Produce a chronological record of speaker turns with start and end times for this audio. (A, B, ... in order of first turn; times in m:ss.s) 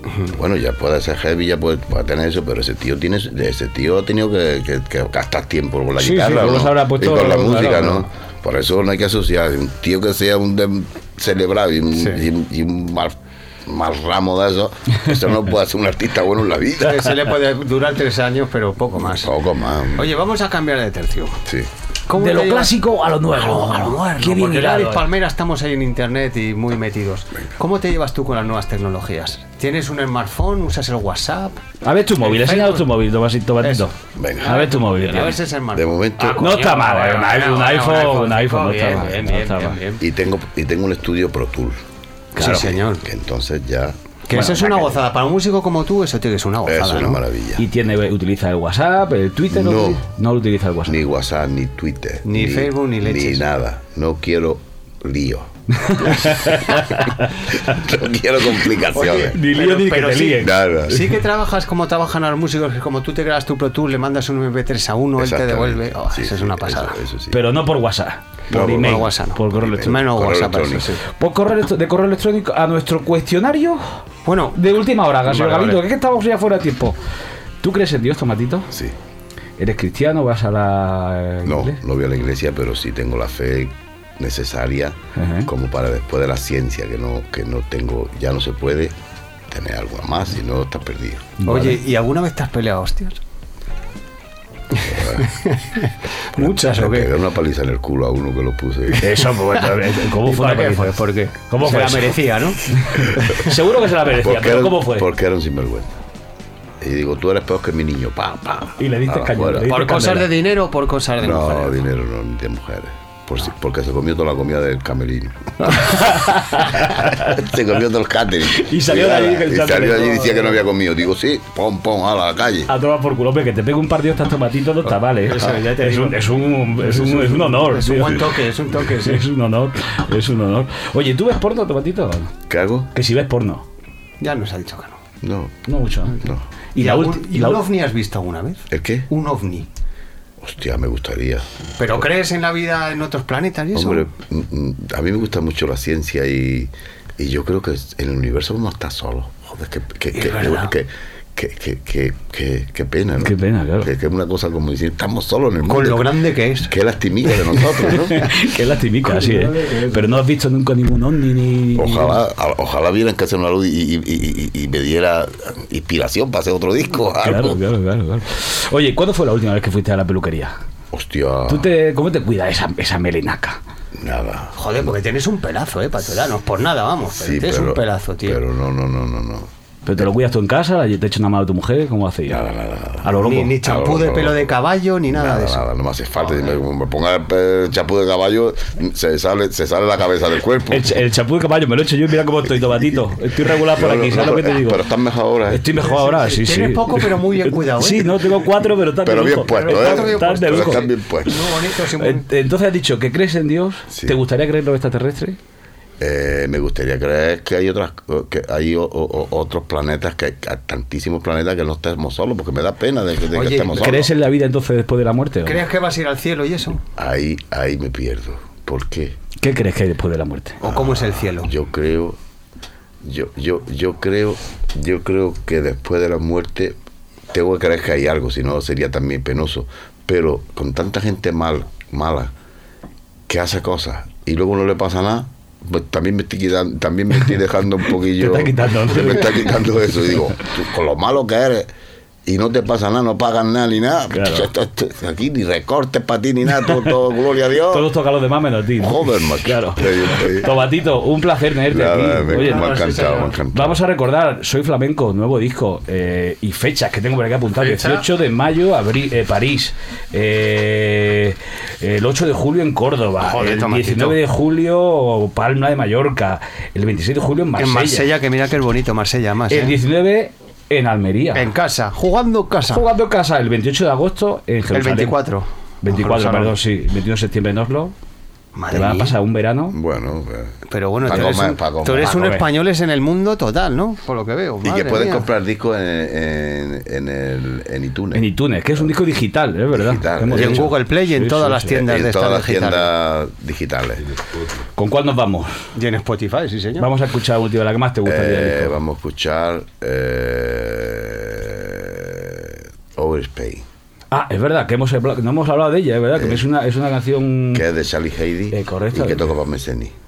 0:00.3-0:17.2 A
0:06.0-0:08.1 B
0:12.0-0:12.2 C
0:16.8-0:19.4 C
0:19.0-0:20.1 A
0:20.0-0:21.4 C
0:21.4-0:21.7 A
0:22.1-0:22.8 C
0:22.2-0:25.1 B
0:23.3-0:31.6 C
0:31.8-0:35.4 B
0:32.2-0:32.9 C
0:33.6-0:40.0 C
0:34.2-0:34.6 A
0:35.7-0:36.5 A
0:36.4-0:39.8 B
0:40.0-0:41.8 A
0:42.3-0:43.1 C
0:42.4-0:44.0 A
0:44.3-0:47.2 C
0:44.3-0:44.9 B
0:46.6-0:47.7 A
0:47.6-0:51.0 B
0:49.5-0:50.0 A
0:50.9-0:55.5 A
0:52.2-0:53.4 C
0:55.8-0:57.6 B
0:57.6-0:59.4 A
0:58.9-1:07.0 C
0:59.3-1:00.6 B
1:00.4-1:01.1 A
1:05.2-1:07.4 A
1:07.3-1:10.0 B
1:08.5-1:11.0 A
1:08.5-1:11.0 C
1:11.2-1:14.0 B
1:14.3-1:15.8 C
1:14.5-1:17.0 B
1:17.6-1:18.7 B
1:19.6-1:21.8 B
1:21.4-1:28.9 A
1:25.2-1:25.5 B
1:29.5-1:31.4 A
1:31.4-1:31.8 B
1:31.5-1:33.2 C
1:34.8-1:35.4 A
1:35.2-1:37.1 C
1:36.4-1:39.0 A
1:38.9-1:43.5 C
1:39.0-1:45.1 B
1:44.2-1:46.0 A
1:46.8-1:49.7 A
1:48.8-1:50.3 B
1:49.7-1:51.8 C
1:51.2-1:56.1 A
1:55.7-1:57.5 B
1:56.7-2:02.7 A
1:58.5-2:00.6 B
2:02.7-2:12.4 B
2:05.2-2:06.2 C
2:06.8-2:09.3 C
2:12.5-2:12.9 A
2:12.9-2:13.6 B
2:14.2-2:15.0 C
2:15.2-2:15.7 A
2:15.6-2:16.2 B
2:16.2-2:16.4 A
2:16.8-2:17.6 B
2:16.8-2:19.7 C
2:18.7-2:19.1 A
2:20.4-2:21.5 A
2:21.8-2:24.1 C
2:23.7-2:38.4 A
2:30.2-2:30.7 C
2:33.2-2:33.9 B
2:35.6-2:36.8 C
2:37.3-2:38.0 C
2:38.0-2:42.2 B
2:39.1-2:40.0 C
2:41.8-2:47.6 A
2:47.2-2:50.6 B
2:50.9-2:51.7 A
2:51.5-2:53.6 B
2:54.0-2:54.9 A
2:54.6-2:58.4 C
2:57.2-2:59.5 A
2:59.9-3:02.5 B
3:02.3-3:04.5 A
3:03.0-3:03.6 B
3:03.1-3:05.6 C
3:05.1-3:11.0 A
3:10.7-3:14.8 B
3:13.5-3:15.8 A
3:15.5-3:20.9 B
3:15.7-3:18.4 C
3:19.0-3:21.6 A
3:19.4-3:22.3 C
3:22.0-3:25.4 B
3:23.9-3:24.2 A
3:26.0-3:34.1 A
3:33.3-3:34.0 C
3:33.7-3:35.6 B
3:35.5-3:36.8 C
3:37.0-3:39.2 A
3:39.4-3:40.6 B
3:40.6-3:41.5 C
3:40.7-3:42.2 A
3:43.0-3:46.8 A
3:47.3-3:52.3 A
3:53.3-4:01.7 A
3:58.1-3:59.6 B
4:02.3-4:07.9 A
4:04.1-4:04.5 B
4:06.6-4:07.0 B
4:07.6-4:12.8 B
4:08.8-4:10.6 A
4:11.7-4:13.8 A
4:12.3-4:13.4 C
4:13.5-4:28.1 B
4:17.5-4:18.0 C
4:23.2-4:24.2 C
4:27.6-4:29.8 C
4:29.5-4:31.5 B
4:31.4-4:32.8 C
4:32.7-4:35.2 B
4:34.7-4:36.6 C
4:35.8-4:37.9 B
4:38.6-4:39.2 C
4:38.7-4:39.8 B
4:39.7-4:42.3 A
4:40.7-4:45.3 C
4:42.0-4:42.5 B
4:44.6-4:48.9 A
4:48.1-4:51.8 B
4:49.7-4:50.7 A
4:50.3-4:52.9 C
4:51.7-4:54.2 A
4:54.8-4:55.7 B
4:55.8-4:56.9 C
4:56.8-4:58.8 B
4:58.0-5:03.6 A
5:04.1-5:07.6 B
5:06.2-5:06.5 A
5:07.5-5:09.9 A
5:08.5-5:09.3 B